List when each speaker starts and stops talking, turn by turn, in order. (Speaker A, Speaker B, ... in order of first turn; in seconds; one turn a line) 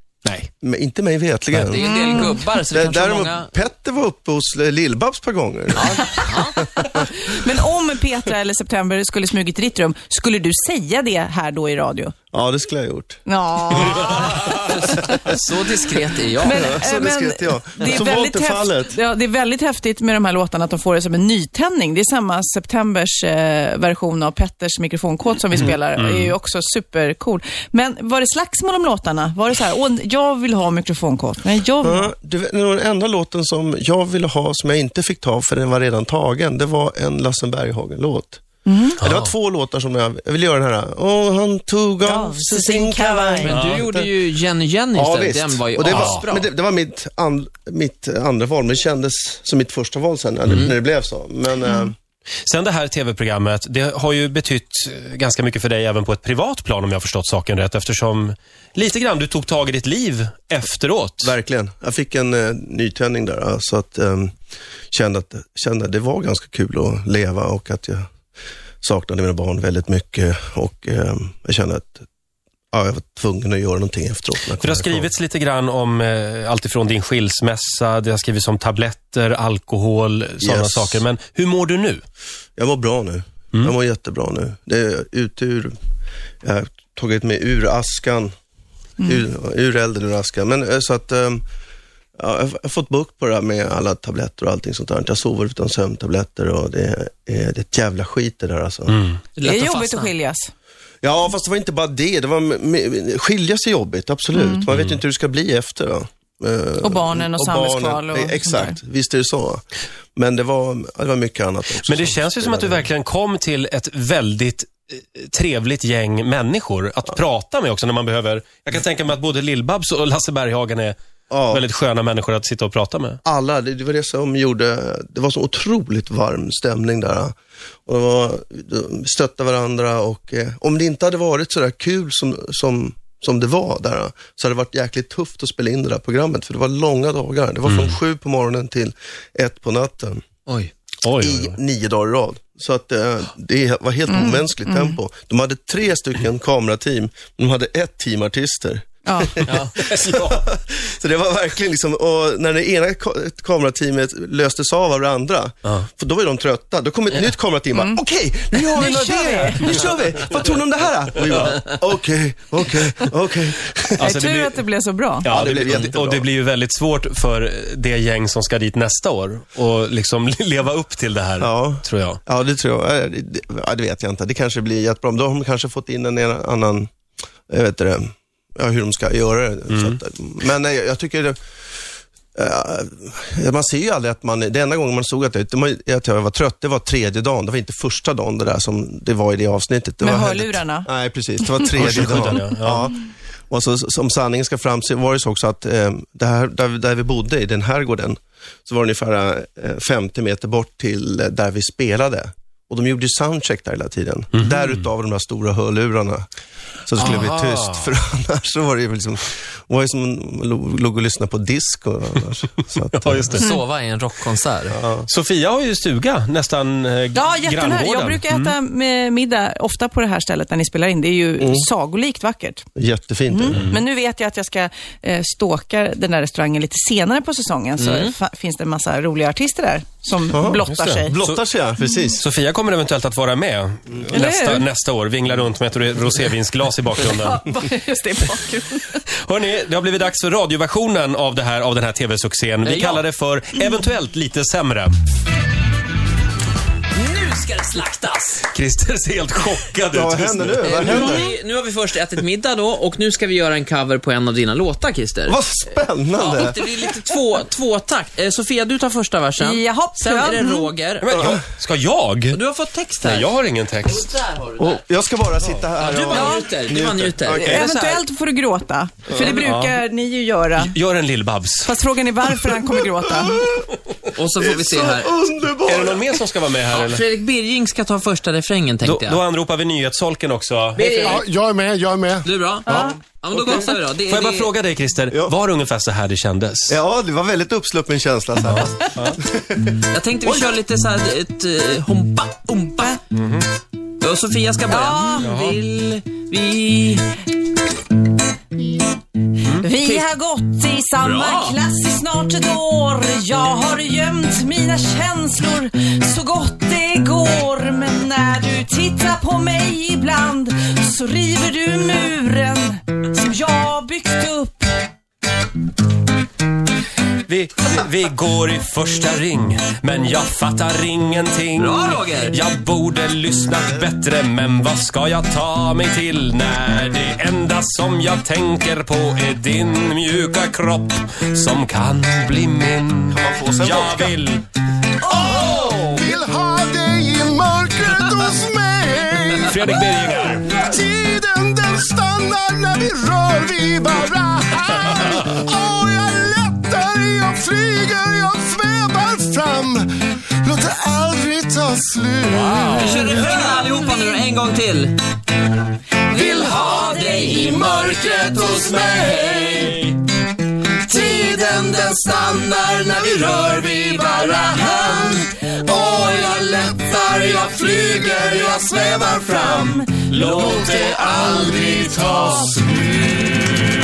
Speaker A: 0.2-0.5
Speaker B: 0.6-6.2
Speaker C: 1.5-3.5
Speaker D: 1.9-2.4
Speaker C: 5.8-6.7
Speaker D: 6.8-12.1
Speaker B: 12.3-13.2
Speaker D: 13.2-15.3
Speaker C: 14.2-16.7
Speaker D: 16.4-32.1
Speaker B: 16.4-18.9
Speaker A: 25.6-26.3
Speaker B: 31.8-38.4
Speaker D: 38.6-39.0
Speaker B: 39.0-44.1
Speaker A: 39.0-39.3
Speaker D: 42.0-43.5
Speaker C: 43.4-46.5
Speaker A: 43.5-43.8
Speaker B: 44.9-51.9
Speaker A: 45.8-46.2
Speaker A: 52.5-61.3
Speaker B: 61.2-64.3
Speaker B: 64.9-68.1
Speaker B: 68.8-72.0
Speaker B: 72.7-75.1
Speaker A: 74.6-82.0
Speaker B: 80.4-81.0
Speaker B: 82.6-85.7
Speaker B: 86.4-88.3
Speaker B: 89.0-91.4
Speaker B: 92.2-99.0
Speaker A: 98.9-99.2
Speaker C: 99.3-100.1
Speaker D: 99.4-100.5
Speaker B: 101.0-109.6
Speaker D: 104.3-104.7
Speaker A: 104.7-105.0
Speaker D: 106.8-108.8
Speaker B: 110.2-112.9
Speaker A: 111.8-121.0
Speaker B: 121.3-121.6
Speaker A: 121.5-123.2
Speaker B: 123.2-127.3
Speaker B: 127.8-140.3
Speaker A: 137.7-137.9
Speaker A: 141.0-141.6
Speaker B: 141.2-164.1
Speaker D: 144.1-145.0
Speaker D: 149.0-149.4
Speaker A: 149.5-150.5
Speaker D: 157.7-158.0
Speaker D: 158.6-159.8
Speaker A: 161.2-161.7
Speaker A: 164.0-164.6
Speaker D: 164.0-165.3
Speaker A: 165.2-172.2
Speaker B: 165.3-166.3
Speaker B: 171.4-176.9
Speaker B: 177.5-181.4
Speaker A: 179.7-180.0
Speaker B: 182.3-206.3
Speaker D: 190.0-190.9
Speaker A: 191.7-192.9
Speaker A: 204.4-204.8
Speaker B: 206.8-213.4
Speaker A: 206.9-207.9
Speaker A: 213.0-213.5
Speaker C: 213.3-214.8
Speaker B: 214.7-215.1
Speaker A: 215.1-218.5
Speaker D: 217.1-222.7
Speaker B: 221.4-221.7
Speaker B: 222.8-223.7
Speaker D: 223.3-231.2
Speaker C: 227.8-228.1
Speaker B: 230.3-232.2
Speaker A: 230.7-231.4
Speaker A: 232.2-237.4
Speaker D: 234.1-234.6
Speaker D: 237.0-239.0
Speaker A: 239.2-244.9
Speaker C: 242.6-243.0
Speaker C: 246.9-248.4
Speaker A: 248.5-251.1
Speaker B: 249.9-251.3
Speaker C: 250.6-255.4
Speaker B: 255.2-256.7
Speaker C: 256.1-261.3
Speaker D: 259.4-260.7
Speaker A: 261.0-262.4
Speaker B: 261.1-261.4
Speaker C: 262.3-263.3
Speaker A: 263.0-264.2
Speaker C: 264.0-264.7
Speaker B: 264.6-267.6
Speaker C: 265.8-267.6
Speaker D: 266.1-266.5
Speaker D: 267.4-270.7
Speaker A: 267.5-268.0
Speaker B: 269.1-269.4
Speaker A: 269.4-269.8
Speaker A: 270.6-271.7
Speaker D: 271.6-273.5
Speaker B: 273.1-273.8
Speaker C: 274.1-275.1
Speaker B: 274.4-276.2
Speaker A: 275.6-277.0
Speaker C: 276.7-279.2
Speaker A: 278.8-281.2
Speaker C: 280.8-281.2
Speaker E: 280.8-282.3
Speaker C: 282.2-284.5
Speaker B: 282.7-283.6
Speaker D: 282.7-282.9
Speaker A: 284.0-286.8
Speaker B: 286.7-290.6
Speaker A: 288.4-289.2
Speaker C: 289.9-293.0
Speaker A: 293.1-293.5
Speaker C: 294.0-297.1
Speaker D: 294.7-295.3
Speaker A: 295.2-295.6
Speaker D: 299.6-314.9
Speaker C: 299.8-300.1
Speaker C: 301.0-301.6
Speaker A: 317.2-334.4
Speaker C: 321.6-322.4
Speaker B: 333.1-334.1
Speaker E: 335.1-349.9
Speaker A: 335.1-335.8
Speaker A: 339.4-340.4
Speaker E: 350.4-353.3
Speaker A: 352.3-353.1
Speaker C: 352.7-355.0
Speaker C: 356.1-360.0
Speaker C: 360.8-370.5
Speaker D: 369.2-369.9
Speaker A: 369.9-372.9